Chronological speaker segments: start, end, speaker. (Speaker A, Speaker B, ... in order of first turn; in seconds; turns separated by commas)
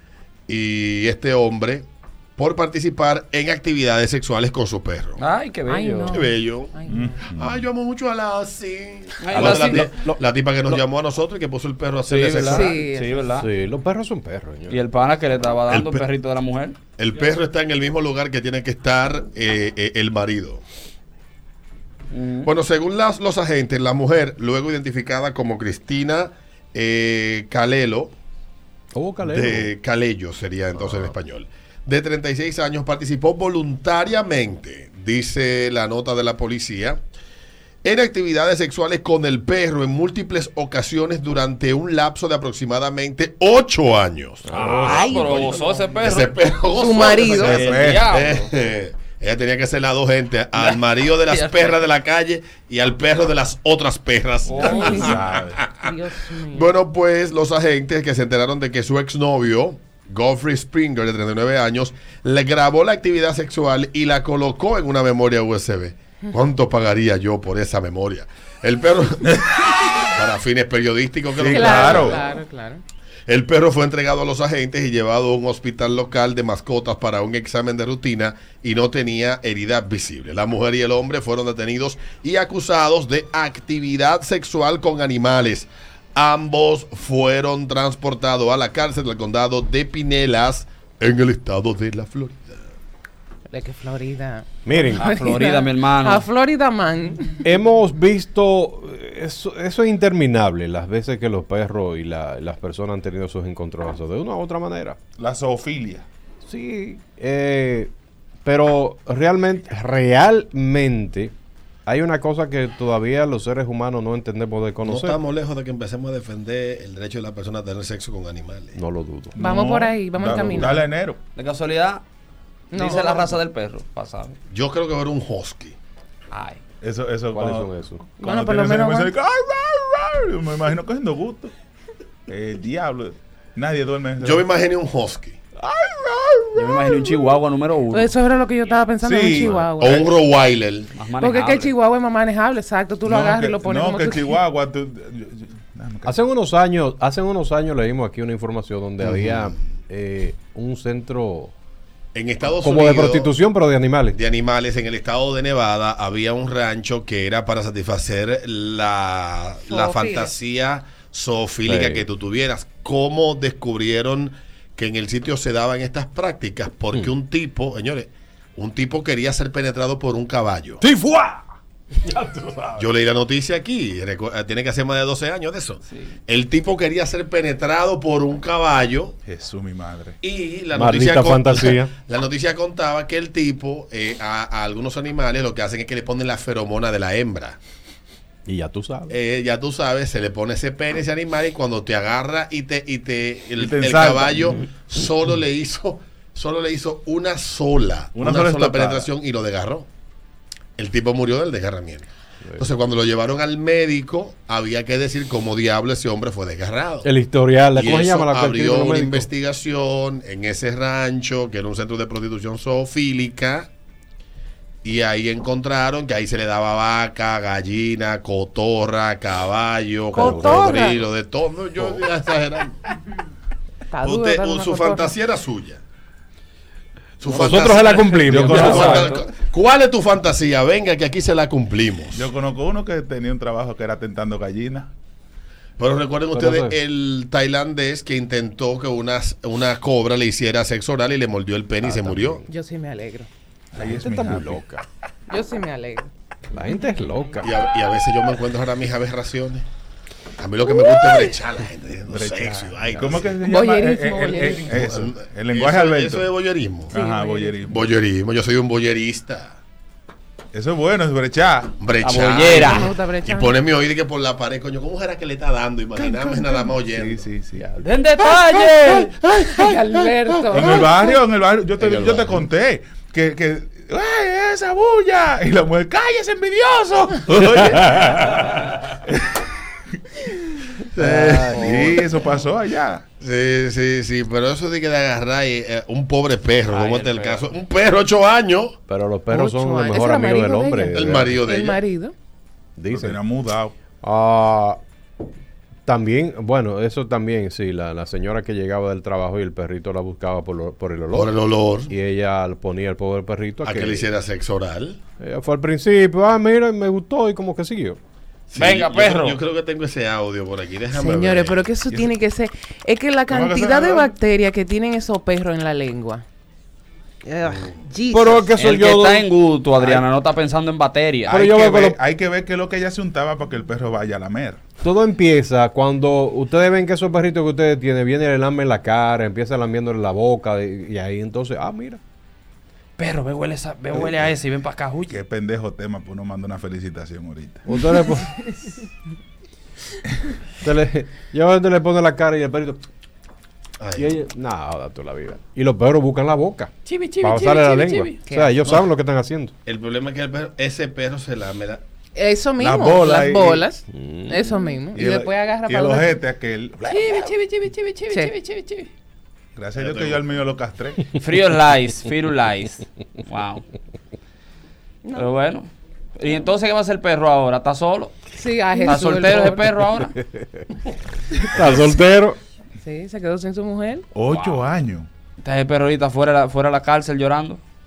Speaker A: 0.5-1.9, Speaker A: 2.4-5.2, Speaker B: 5.2-6.2, Speaker C: 5.7-7.1, Speaker A: 6.1-12.9, Speaker D: 6.9-7.7, Speaker B: 9.2-9.9, Speaker E: 9.3-10.8, Speaker B: 12.1-13.5, Speaker C: 12.5-13.4, Speaker E: 13.3-14.8, Speaker B: 14.7-16.8, Speaker A: 15.7-16.0, Speaker A: 17.0-20.6, Speaker B: 22.1-22.5, Speaker A: 22.4-28.1, Speaker E: 28.9-29.7, Speaker A: 29.2-37.0, Speaker A: 37.8-45.5, Speaker E: 44.5-45.3, Speaker D: 44.5-45.5, Speaker B: 44.7-46.3, Speaker A: 46.0-69.4, Speaker C: 46.7-47.6, Speaker D: 47.4-48.2, Speaker B: 47.4-48.4, Speaker B: 50.5-51.8, Speaker D: 54.5-55.7, Speaker C: 54.6-56.7, Speaker D: 69.3-70.0, Speaker A: 70.0-72.2, Speaker D: 71.3-72.2, Speaker C: 71.5-72.8, Speaker A: 73.3-92.6, Speaker C: 93.5-97.4, Speaker E: 94.6-95.1, Speaker B: 95.0-96.3, Speaker E: 97.4-105.0, Speaker D: 105.2-106.1, Speaker E: 106.5-107.9, Speaker E: 108.4-111.3, Speaker E: 111.8-115.2, Speaker A: 114.8-118.8, Speaker E: 118.7-119.4, Speaker D: 119.3-121.2, Speaker C: 119.4-120.9, Speaker B: 121.3-122.0, Speaker C: 122.7-123.3, Speaker B: 122.7-124.3, Speaker A: 124.5-125.8, Speaker B: 126.3-126.6, Speaker D: 126.8-131.5, Speaker E: 127.3-128.0, Speaker C: 128.2-129.1, Speaker D: 132.3-134.4, Speaker A: 134.2-135.4, Speaker D: 135.6-137.2, Speaker B: 136.6-138.1, Speaker C: 137.9-140.1, Speaker D: 139.0-140.1, Speaker A: 139.8-140.9, Speaker B: 140.9-141.7, Speaker C: 141.2-144.4, Speaker D: 143.1-146.2, Speaker E: 146.1-151.5, Speaker A: 149.0-149.5, Speaker A: 152.1-153.3, Speaker E: 152.6-154.2, Speaker A: 154.1-170.8, Speaker C: 159.7-160.3, Speaker E: 161.7-162.1, Speaker E: 170.8-171.5, Speaker E: 172.0-172.9, Speaker A: 172.8-179.1, Speaker B: 175.9-176.1, Speaker D: 179.2-180.2, Speaker A: 180.2-187.6, Speaker E: 180.7-181.9, Speaker E: 188.4-189.1, Speaker A: 189.1-199.9, Speaker D: 193.6-194.6, Speaker D: 198.1-199.1, Speaker A: 200.8-207.1, Speaker E: 207.0-209.3, Speaker A: 207.7-213.7, Speaker A: 214.8-222.8, Speaker C: 220.1-221.0, Speaker E: 220.2-220.7, Speaker C: 223.9-225.1, Speaker A: 224.0-225.8, Speaker A: 227.2-232.3, Speaker E: 227.2-229.0, Speaker D: 228.3-229.1, Speaker B: 228.5-229.3, Speaker D: 232.1-234.9, Speaker A: 235.8-242.4, Speaker E: 236.3-236.8, Speaker E: 241.8-242.5, Speaker C: 242.5-243.3, Speaker D: 243.7-244.6, Speaker E: 243.8-244.8, Speaker C: 245.3-246.1, Speaker E: 246.5-247.6, Speaker A: 247.4-249.6, Speaker A: 250.4-253.4, Speaker D: 252.1-256.3, Speaker C: 253.4-254.8, Speaker A: 254.7-256.9, Speaker D: 256.9-257.9, Speaker C: 256.9-257.6, Speaker A: 257.7-259.6, Speaker D: 260.5-261.8, Speaker A: 261.8-267.3, Speaker B: 262.0-262.9, Speaker C: 262.6-263.6, Speaker D: 266.0-267.7, Speaker B: 267.7-269.1, Speaker A: 269.2-269.8, Speaker C: 269.4-271.2, Speaker D: 270.5-279.3, Speaker A: 271.8-272.3, Speaker A: 280.9-281.6, Speaker B: 281.0-282.0, Speaker D: 281.4-283.0, Speaker A: 283.2-288.8, Speaker B: 286.7-287.5, Speaker E: 288.9-291.4, Speaker C: 289.3-292.1, Speaker A: 290.9-291.8, Speaker E: 292.8-293.2, Speaker D: 292.9-293.8, Speaker E: 294.0-294.8, Speaker E: 295.9-301.3, Speaker A: 301.1-301.9, Speaker E: 301.9-304.1, Speaker A: 303.6-305.0, Speaker E: 305.2-308.0, Speaker A: 308.5-311.7, Speaker B: 308.5-309.4, Speaker C: 310.9-316.2, Speaker D: 311.9-312.2, Speaker D: 313.3-314.2, Speaker C: 317.2-318.6, Speaker E: 318.1-319.3, Speaker B: 318.6-321.4, Speaker D: 321.3-324.6, Speaker E: 321.3-322.0, Speaker E: 324.8-332.0, Speaker B: 333.0-335.1, Speaker D: 335.1-337.6, Speaker E: 337.6-338.4, Speaker E: 340.6-342.8, Speaker A: 343.8-344.2, Speaker E: 343.9-349.5, Speaker B: 346.9-348.2, Speaker C: 348.2-348.5, Speaker A: 349.6-351.8, Speaker C: 352.1-356.2, Speaker D: 352.6-353.7, Speaker E: 353.9-354.7, Speaker D: 354.9-357.3, Speaker B: 356.8-358.9, Speaker D: 359.6-361.1, Speaker A: 359.8-360.2, Speaker B: 361.2-363.6, Speaker C: 365.0-365.3, Speaker B: 365.1-368.1, Speaker C: 368.3-369.7, Speaker B: 368.7-370.2, Speaker E: 370.3-370.6, Speaker E: 371.5-372.4, Speaker C: 372.8-374.1, Speaker D: 374.1-375.1, Speaker B: 374.3-374.6, Speaker B: 375.4-377.6